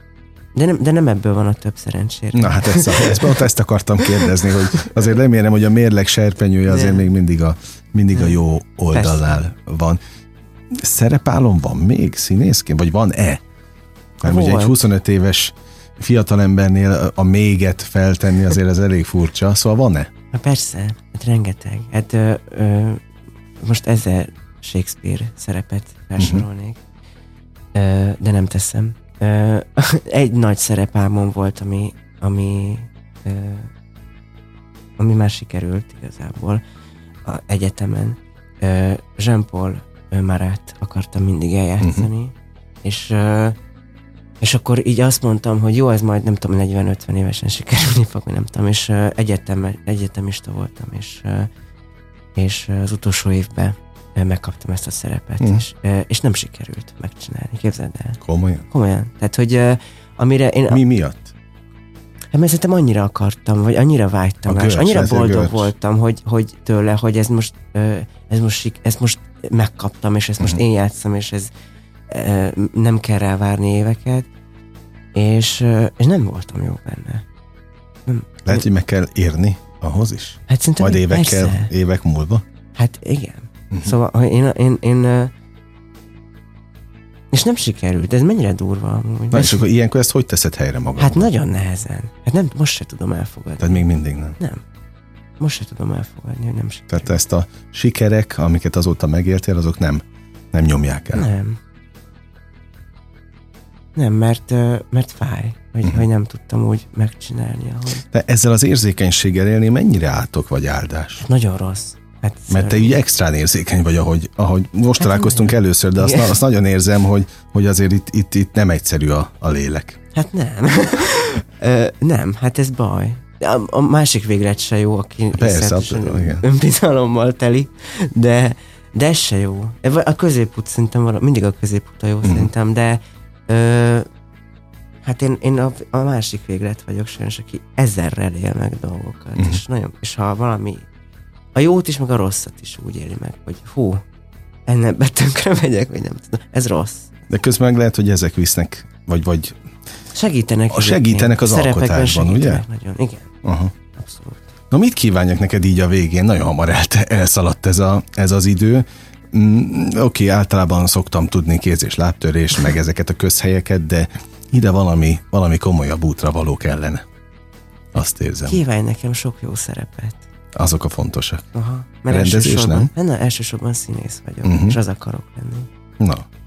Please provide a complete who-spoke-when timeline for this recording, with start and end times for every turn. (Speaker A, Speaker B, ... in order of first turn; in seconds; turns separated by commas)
Speaker A: 0.5-3.4, Speaker B: 2.3-10.0, Speaker A: 4.0-4.9, Speaker A: 6.7-7.1, Speaker A: 8.1-8.4, Speaker A: 8.9-9.4, Speaker B: 10.7-13.4, Speaker A: 14.2-14.8, Speaker B: 14.2-20.1, Speaker A: 20.3-23.0, Speaker A: 23.6-26.8, Speaker B: 26.2-26.4, Speaker A: 27.7-33.7, Speaker A: 35.0-36.6, Speaker A: 37.2-43.6, Speaker B: 41.8-42.1, Speaker A: 44.4-51.5, Speaker A: 52.4-60.8, Speaker B: 58.2-58.6, Speaker B: 60.7-61.3, Speaker A: 62.3-71.5, Speaker B: 64.5-65.7, Speaker A: 72.1-74.3, Speaker A: 75.1-77.2, Speaker A: 78.1-78.7, Speaker B: 78.4-82.4, Speaker A: 80.5-81.7, Speaker A: 82.8-85.3, Speaker A: 87.3-89.6, Speaker B: 89.3-91.3, Speaker A: 91.0-93.8, Speaker B: 93.6-94.4, Speaker A: 95.4-97.1, Speaker B: 96.9-101.3, Speaker A: 101.1-101.6, Speaker A: 103.9-108.0, Speaker B: 108.1-111.2, Speaker A: 111.2-113.0, Speaker B: 112.5-120.0, Speaker A: 115.0-116.3, Speaker A: 120.1-134.1, Speaker B: 125.3-126.4, Speaker B: 132.2-132.5, Speaker A: 135.0-140.8, Speaker A: 141.5-144.0, Speaker A: 144.7-147.1, Speaker B: 147.3-149.6, Speaker A: 150.1-153.3, Speaker B: 150.7-152.6, Speaker B: 153.4-153.7, Speaker A: 153.9-154.4, Speaker B: 154.7-167.0, Speaker B: 167.9-168.6, Speaker A: 168.4-170.3, Speaker B: 170.5-171.5, Speaker A: 171.5-175.7, Speaker B: 172.1-172.9, Speaker B: 174.4-174.8, Speaker B: 176.0-176.3